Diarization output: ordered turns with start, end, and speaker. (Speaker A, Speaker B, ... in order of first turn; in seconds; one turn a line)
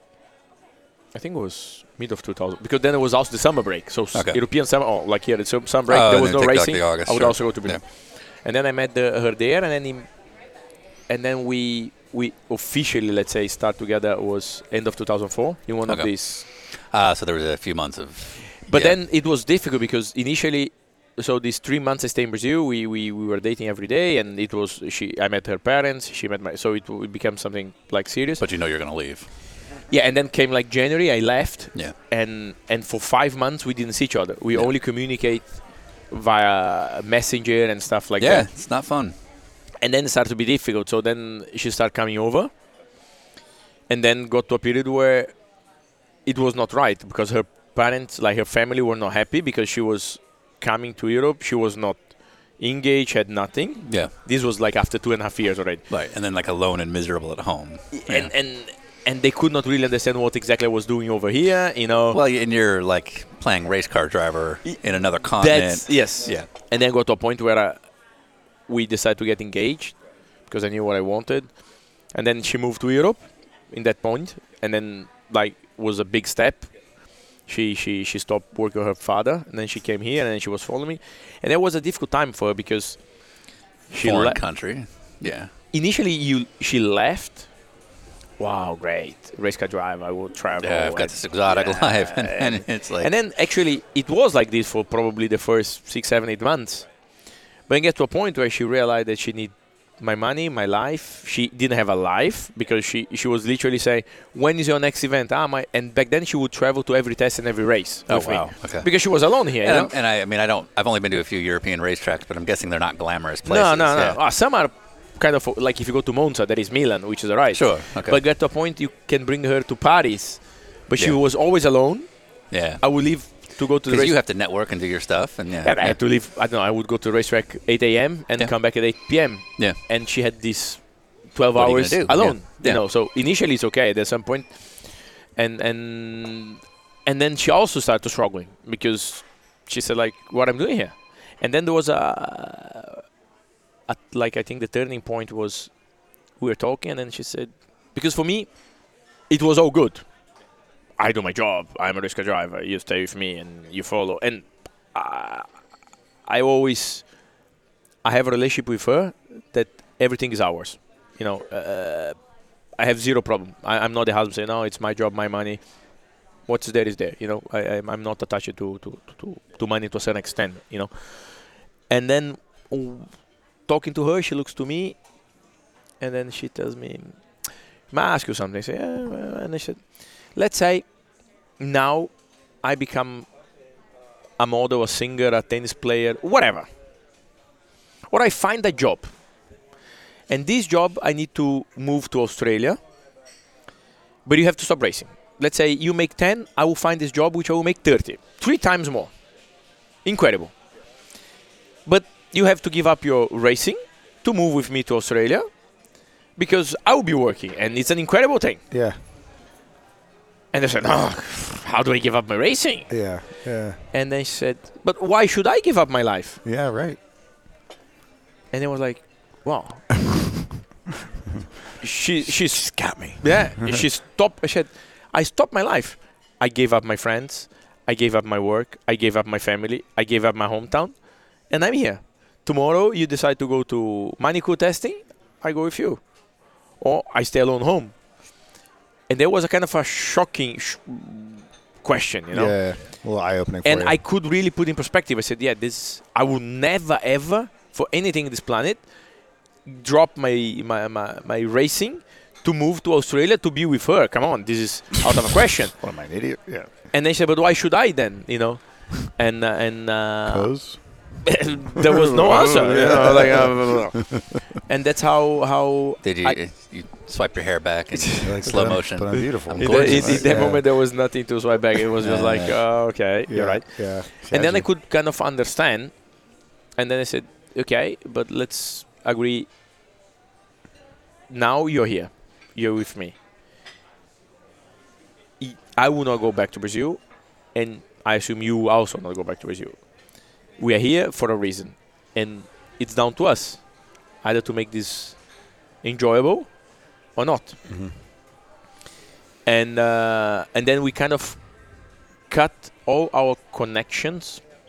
Speaker A: 1.1-10.1
Speaker B: 4.1-4.4
Speaker B: 5.9-7.8
Speaker A: 11.1-16.4
Speaker B: 15.9-18.9
Speaker A: 18.6-28.4
Speaker B: 28.4-29.3
Speaker A: 29.9-38.5
Speaker B: 38.2-39.1
Speaker A: 39.8-42.5
Speaker A: 43.9-45.3
Speaker A: 46.2-55.8
Speaker B: 53.9-54.1
Speaker B: 55.9-58.3
Speaker A: 57.9-62.2
Speaker B: 62.1-66.5
Speaker A: 65.4-67.9
Speaker A: 68.7-83.3
Speaker A: 83.9-84.4
Speaker B: 84.0-85.5
Speaker A: 85.7-87.5
Speaker A: 88.4-96.9
Speaker B: 90.6-93.1
Speaker A: 97.7-109.9
Speaker B: 108.1-114.2
Speaker A: 113.5-122.1
Speaker B: 117.5-118.2
Speaker B: 122.5-123.0
Speaker A: 122.8-124.2
Speaker B: 123.9-126.0
Speaker A: 125.6-143.0
Speaker B: 131.5-132.8
Speaker A: 143.9-145.7
Speaker A: 146.4-148.5
Speaker A: 149.3-150.0
Speaker A: 151.0-155.5
Speaker A: 156.2-157.1
Speaker A: 158.0-162.2
Speaker A: 162.8-165.6
Speaker A: 166.4-175.0
Speaker A: 176.0-180.9
Speaker A: 181.6-183.3
Speaker A: 184.4-186.7
Speaker A: 188.1-189.1
Speaker A: 190.3-192.8
Speaker A: 194.2-199.1
Speaker A: 200.0-200.5
Speaker A: 201.8-205.5
Speaker A: 206.3-208.6
Speaker C: 208.7-209.0
Speaker A: 210.5-213.2
Speaker C: 212.9-213.8
Speaker A: 213.9-216.4
Speaker C: 216.4-217.0
Speaker A: 218.5-219.9
Speaker A: 221.8-236.1
Speaker C: 222.2-223.8
Speaker A: 236.7-238.0
Speaker A: 239.1-242.9
Speaker C: 242.3-244.0
Speaker A: 243.6-248.9
Speaker A: 249.6-255.8
Speaker C: 255.8-256.7
Speaker A: 256.9-266.4
Speaker C: 260.3-261.4
Speaker C: 262.2-264.2
Speaker B: 266.0-270.6
Speaker A: 267.9-268.4
Speaker C: 268.2-270.6
Speaker A: 269.5-276.2
Speaker B: 272.0-272.5
Speaker C: 273.3-274.6
Speaker A: 276.7-279.5
Speaker A: 281.3-283.1
Speaker A: 285.4-297.6
Speaker C: 297.6-297.9
Speaker A: 299.4-304.4